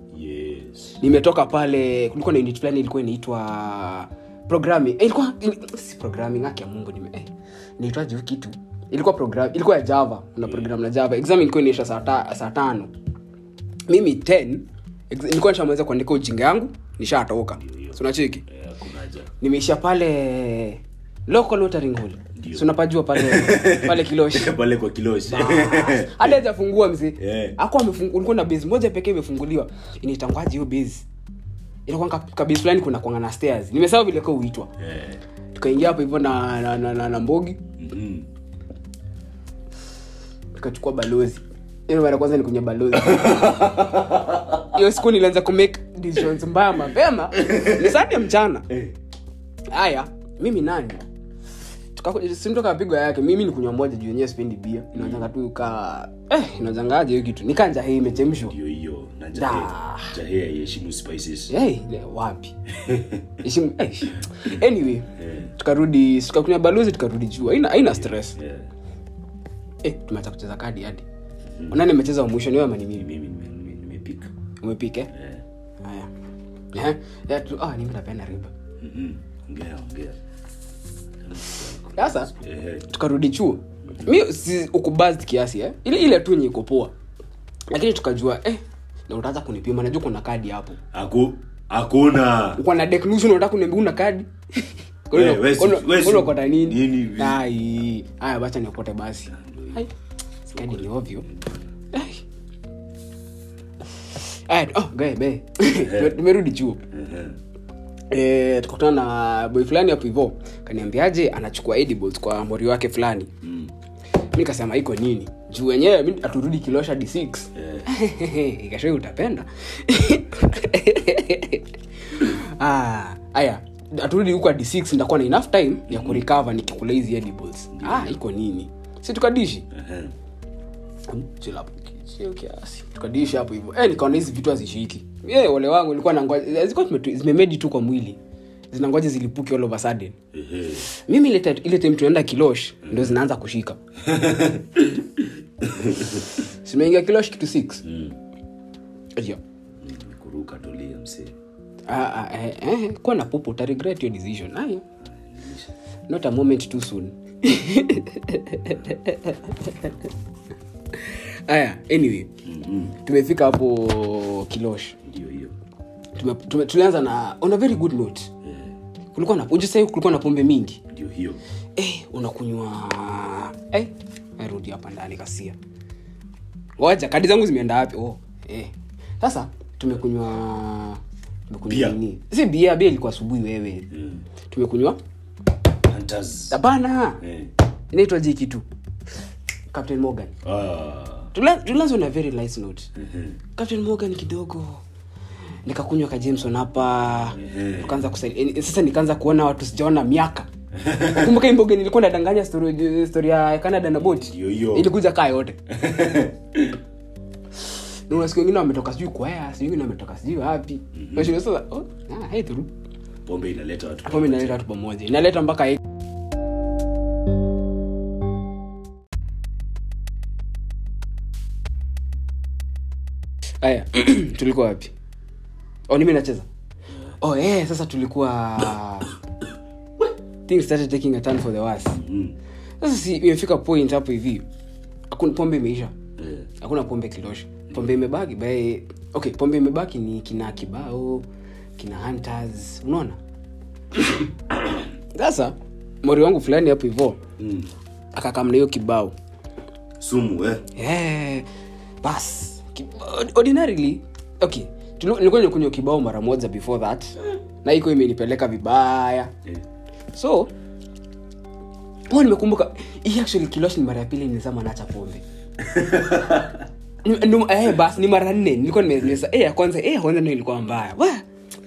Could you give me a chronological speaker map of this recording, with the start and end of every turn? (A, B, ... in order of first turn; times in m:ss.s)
0:00.1-0:01.0 A
0:01.0-0:12.9 B
0:13.9-0:18.4 B
0:17.6-0:19.3 A
0:19.4-0:24.5 B
0:22.3-0:26.4 A
0:25.2-0:31.0 B
0:27.2-0:27.6 A
0:31.8-0:34.7 B
0:34.8-0:35.2 A
0:35.5-0:37.6 B
0:37.8-0:38.3 A
0:40.6-0:43.8 B
0:42.9-0:44.9 A
0:44.7-0:48.7 B
0:47.4-0:48.1 A
0:48.7-0:49.0 A
0:49.7-0:51.0 B
0:52.0-0:58.6 B
0:54.9-0:55.3 A
0:58.3-1:01.5 A
0:59.3-1:00.2 B
1:01.5-1:02.5 B
1:02.7-1:03.3 A
1:03.4-1:05.1 B
1:05.2-1:05.5 A
1:05.6-1:08.4 B
1:08.2-1:08.7 A
1:09.8-1:11.0 B
1:11.5-1:11.8 A
1:11.7-1:13.1 B
1:12.9-1:14.3 A
1:14.6-1:15.1 B
1:15.1-1:15.4 A
1:15.8-1:16.1 B
1:16.7-1:18.5 B
1:18.8-1:20.2 A
1:21.2-1:22.9 A
1:22.0-1:22.3 B
1:22.9-1:26.9 B
1:23.9-1:24.1 A
1:27.7-1:30.8 B
1:30.9-1:32.6 A
1:32.6-1:39.9 B
1:35.1-1:37.5 A
1:39.3-1:39.8 A
1:40.5-1:41.2 B
1:40.5-1:41.6 A
1:41.9-1:42.2 B
1:44.1-1:46.8 B
1:45.7-1:46.2 A
1:46.9-1:47.4 A
1:48.1-1:53.3 B
1:53.4-1:53.7 A
1:54.3-2:09.7 B
1:57.5-1:57.9 A
2:05.9-2:06.2 A
2:07.7-2:08.2 A
2:09.7-2:10.1 A
2:11.1-2:18.2 B
2:18.7-2:20.1 B
2:20.3-2:20.9 A
2:20.9-2:23.8 B
2:22.8-2:23.2 A
2:24.0-2:26.3 A
2:26.4-2:27.8 B
2:27.8-2:28.2 A
2:29.8-2:31.3 A
2:31.9-2:34.8 B
2:35.1-2:35.7 A
2:36.1-2:40.1 B
2:40.9-2:42.3 B
2:42.4-2:43.0 A
2:43.0-2:45.0 B
2:45.0-2:45.6 A
2:46.1-2:48.3 B
2:48.4-2:48.7 A
2:49.1-2:50.8 B
2:50.9-2:51.4 A
2:51.8-2:55.5 B
2:56.8-3:03.9 B
3:01.6-3:02.0 A
3:03.9-3:04.2 A
3:04.5-3:05.0 B
3:05.8-3:06.6 A
3:06.5-3:07.2 B
3:07.2-3:07.5 A
3:07.9-3:08.6 B
3:09.7-3:10.3 B
3:10.4-3:11.3 A
3:11.3-3:12.9 B
3:13.0-3:13.4 A
3:13.6-3:14.8 B
3:15.6-3:20.5 B
3:17.4-3:18.0 A
3:20.8-3:21.3 A
3:21.0-3:25.6 B
3:23.9-3:24.9 A
3:25.7-3:26.8 A
3:28.1-3:32.7 B
3:30.9-3:31.4 A
3:33.2-3:34.6 A
3:34.0-3:35.8 B
3:43.6-3:44.9 B
3:45.9-3:46.4 B
3:47.2-3:49.2 B
3:50.5-3:52.0 B
3:51.9-3:52.4 A
3:52.8-3:54.4 B
3:55.1-3:55.9 B
3:56.2-3:56.5 A
3:56.6-4:01.3 B
3:57.7-3:58.1 A
4:01.8-4:03.2 B
4:03.9-4:04.3 B
4:05.1-4:07.2 B
4:07.4-4:07.7 A
4:08.1-4:09.1 B
4:10.0-4:10.6 A
4:10.7-4:11.5 B
4:12.0-4:19.3 B
4:20.1-4:20.5 B
4:22.1-4:25.2 B
4:25.6-4:26.6 A
4:27.0-4:31.2 B